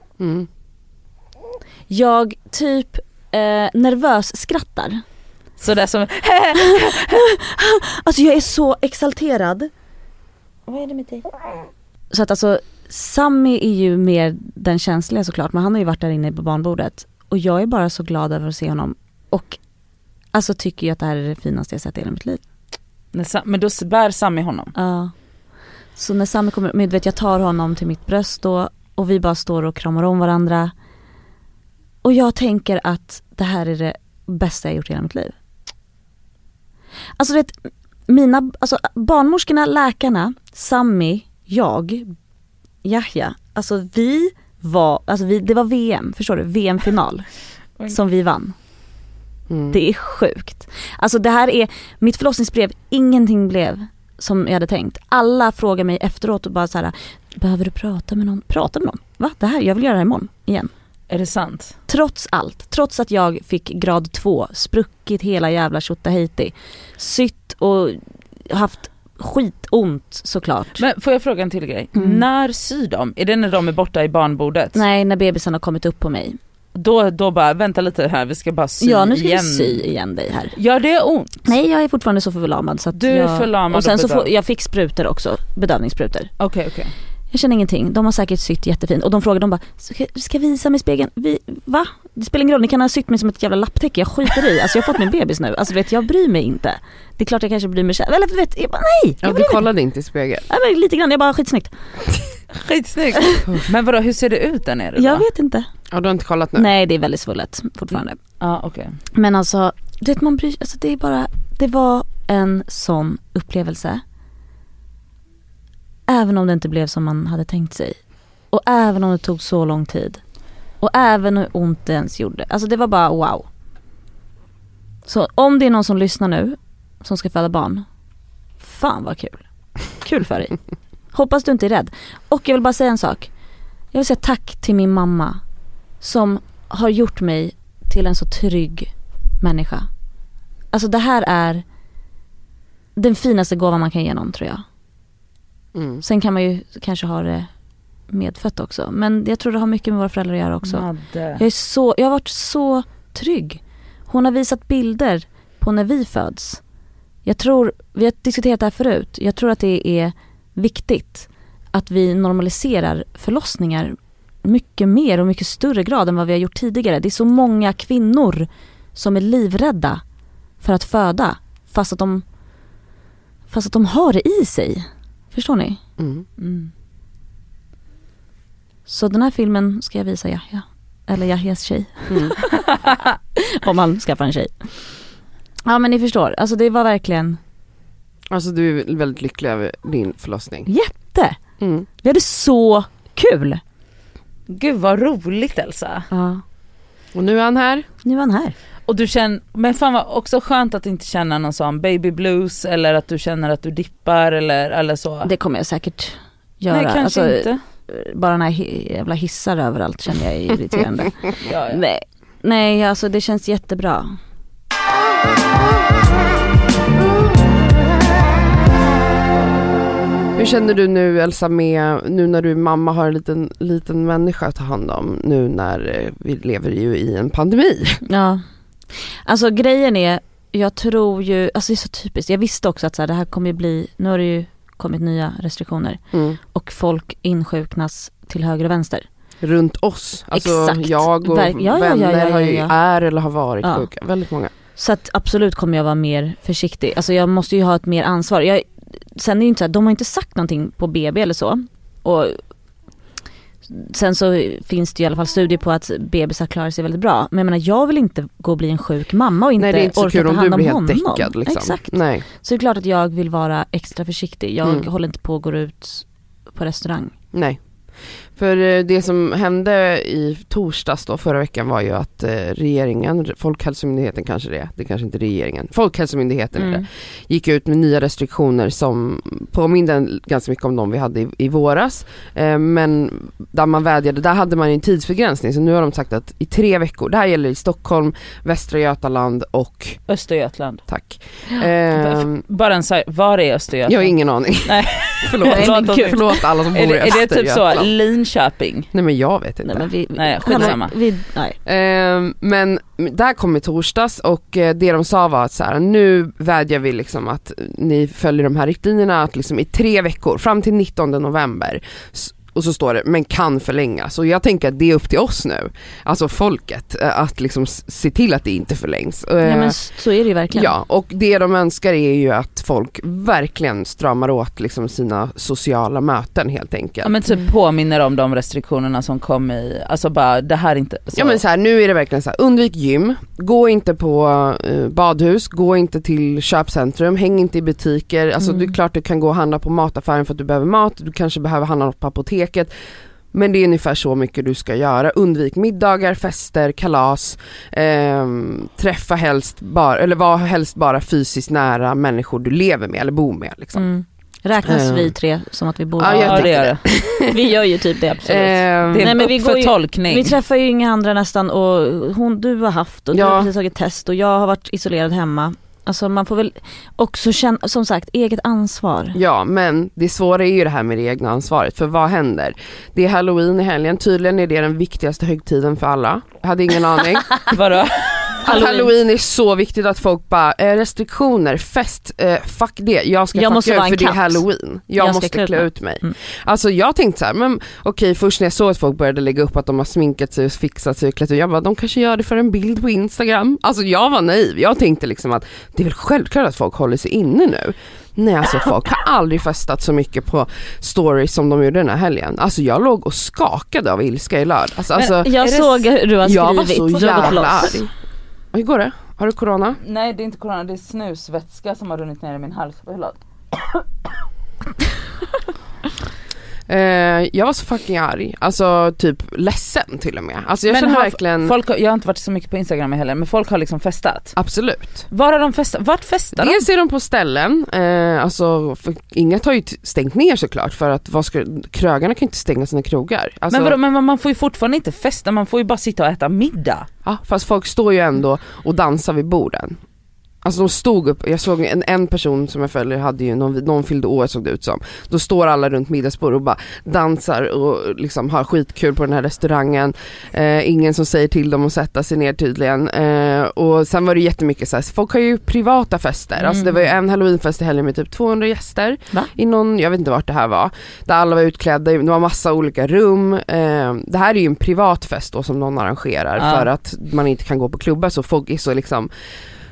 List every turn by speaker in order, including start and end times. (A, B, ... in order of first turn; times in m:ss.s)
0:00.2-0:00.5 A
0:01.9-0:05.0 B
0:05.6-0:07.3 C
0:06.6-0:09.7 B
0:10.7-0:11.2 B
0:12.1-0:19.6 B
0:20.3-0:22.4 B
0:23.1-0:24.7 C
0:24.8-0:25.1 B
0:26.0-0:30.7 B
0:32.0-0:35.4 B
0:37.2-0:37.6 B
0:38.1-0:42.1 B
0:42.8-0:47.3 B
0:47.9-0:48.6 B
0:49.5-0:49.8 A
0:49.7-1:00.7 B
1:01.1-1:01.8 C
1:01.9-1:10.8 B
1:10.8-1:14.8 C
1:12.0-1:12.2 B
1:14.8-1:16.4 B
1:16.8-1:19.8 C
1:18.8-1:20.5 B
1:20.6-1:21.4 C
1:21.4-1:26.3 B
1:23.0-1:24.3 C
1:26.4-1:26.9 C
1:27.3-1:39.6 B
1:39.2-1:40.5 A
1:40.5-1:41.7 B
1:42.5-1:45.3 C
1:45.0-1:45.7 B
1:45.9-1:46.7 A
1:46.6-1:48.2 B
1:48.4-1:49.0 C
1:49.2-1:54.0 B
1:56.1-1:58.0 B
1:58.5-2:00.2 B
2:00.8-2:03.5 B
2:05.1-2:07.8 B
2:08.6-2:09.4 B
2:10.0-2:10.6 B
2:11.1-2:13.3 B
2:13.9-2:15.4 B
2:16.0-2:18.9 B
2:19.4-2:19.9 B
2:20.7-2:21.6 B
2:23.0-2:24.6 B
2:25.8-2:26.0 A
2:26.0-2:27.5 B
2:28.1-2:30.9 B
2:30.6-2:31.4 C
2:31.4-2:36.6 B
2:37.3-2:50.0 B
2:50.6-2:52.2 B
2:53.5-2:55.8 B
2:56.0-2:56.3 A
2:56.4-2:56.7 B
2:58.9-3:02.5 B
3:02.1-3:02.4 A
3:03.4-3:04.7 B
3:05.7-3:07.4 B
3:08.3-3:10.7 A
3:10.7-3:11.4 B
3:11.6-3:11.9 A
3:12.0-3:13.6 B
3:14.5-3:16.1 C
3:16.1-3:16.4 B
3:17.1-3:17.9 A
3:18.0-3:18.6 B
3:18.9-3:25.3 C
3:25.2-3:34.2 B
3:26.7-3:27.6 C
3:31.4-3:31.8 C
3:40.4-3:48.0 A
3:48.1-3:48.4 B
3:49.2-3:56.0 B
3:56.1-3:56.4 A
3:56.5-3:59.0 B
3:59.4-4:04.5 A
4:00.3-4:02.7 B
4:03.6-4:03.9 B
4:04.8-4:08.6 B
4:09.2-4:12.4 B
4:13.7-4:27.1 B
4:19.6-4:22.2 A
4:27.3-4:27.6 A
4:28.4-4:50.0 A
4:36.6-4:36.8 B
4:50.1-4:50.8 C
4:50.9-4:52.4 A
4:51.9-4:58.9 C
4:53.9-4:57.9 A
4:55.4-4:56.2 B
4:58.9-4:59.9 A
4:59.6-5:01.6 B
5:00.2-5:00.9 C
5:00.4-5:00.8 A
5:01.6-5:19.8 A
5:19.4-5:20.7 B
5:20.5-5:27.2 A
5:27.0-5:31.4 C
5:31.2-5:42.7 A
5:43.3-5:53.8 A
5:53.8-6:09.2 B
5:54.6-5:55.1 A
5:56.0-5:57.4 A
5:56.1-5:56.8 C
5:58.2-5:59.1 A
5:58.9-6:00.4 C
6:03.1-6:03.5 A
6:09.1-6:17.4 A
6:17.5-6:18.4 C
6:18.4-6:45.3 A
6:18.4-6:18.9 B
6:23.3-6:24.4 B
6:25.0-6:26.1 B
6:45.0-6:45.8 C
6:45.2-6:47.8 B
6:46.2-6:47.9 A
6:47.0-6:47.3 C
6:48.5-6:49.8 A
6:49.8-6:53.2 C
6:56.7-7:01.5 A
7:00.7-7:04.4 C
7:04.4-7:05.1 A
7:05.1-7:06.6 C
7:06.4-7:13.8 A
7:13.5-7:16.9 C
7:17.0-7:19.8 A
7:20.4-7:49.1 A
7:36.4-7:36.8 C
7:46.4-7:46.7 C